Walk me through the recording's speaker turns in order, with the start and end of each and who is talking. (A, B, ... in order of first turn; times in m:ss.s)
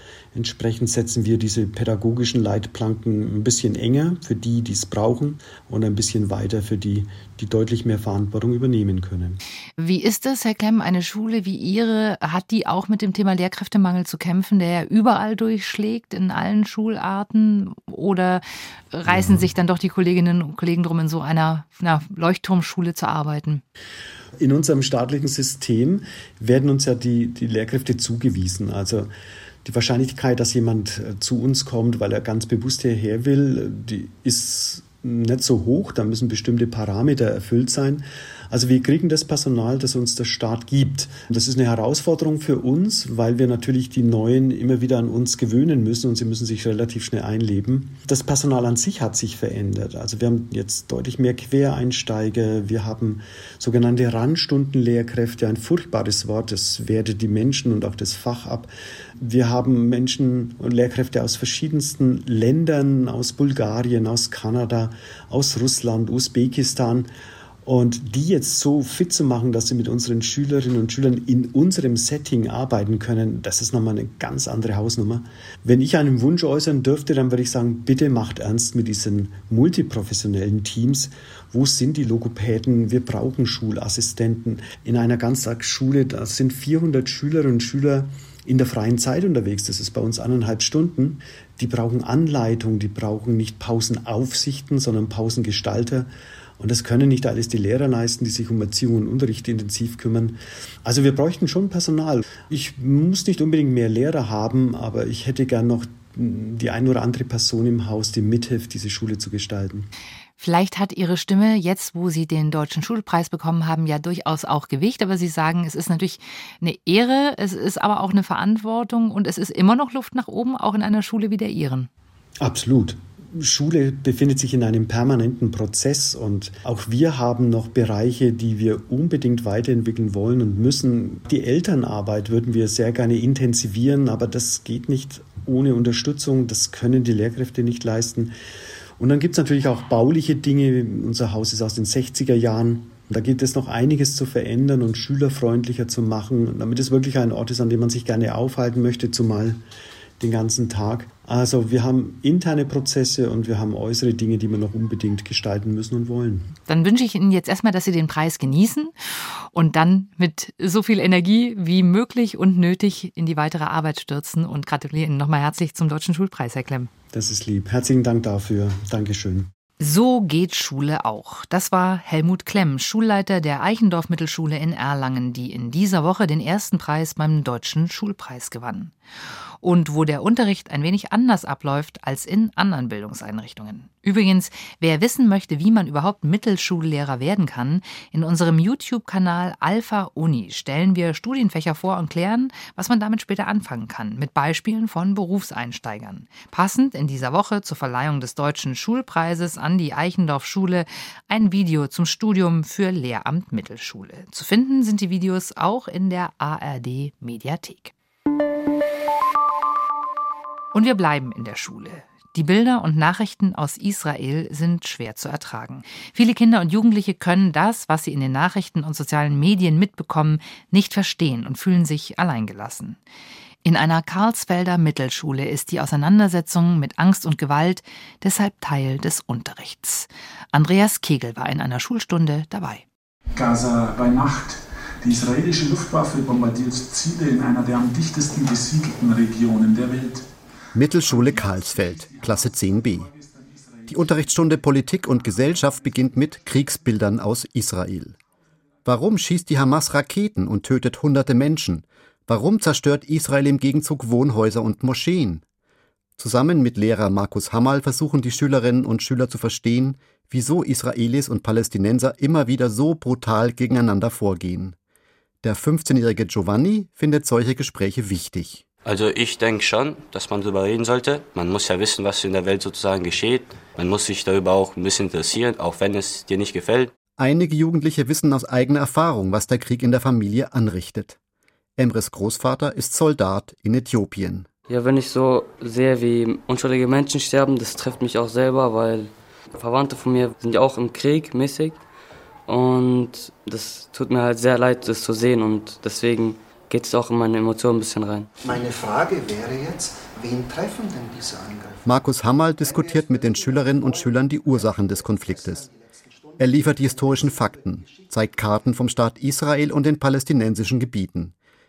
0:00.3-0:09.4 A
0:09.8-0:23.6 B
0:19.1-0:19.5 A
0:24.4-0:29.1 A
0:29.6-0:58.7 A
0:59.2-1:07.1 A
1:07.6-1:36.1 A
1:36.6-1:49.9 A
1:50.4-2:01.9 B
2:02.4-2:18.3 A
2:19.0-2:29.6 A
2:30.2-2:36.4 A
2:36.7-2:38.9 B
2:39.5-2:46.9 B
2:47.1-2:49.5 A
2:49.8-2:58.9 B
2:59.6-3:27.9 B
3:30.7-3:43.0 B
3:43.6-3:52.8 B
3:53.4-4:00.2 C
4:00.7-4:03.1 D
4:01.1-4:04.4 C
4:03.9-4:08.2 D
4:05.3-4:05.8 C
4:08.8-4:15.4 D
4:16.2-4:24.8 D
4:25.4-4:28.6 D
4:28.8-4:36.9 E
4:37.2-4:41.2 D
4:41.8-4:44.5 D
4:44.7-4:51.8 F
4:52.5-4:58.3 F
4:58.4-5:01.8 G
5:01.8-5:05.7 D
5:02.8-5:04.0 G
5:06.4-5:11.3 D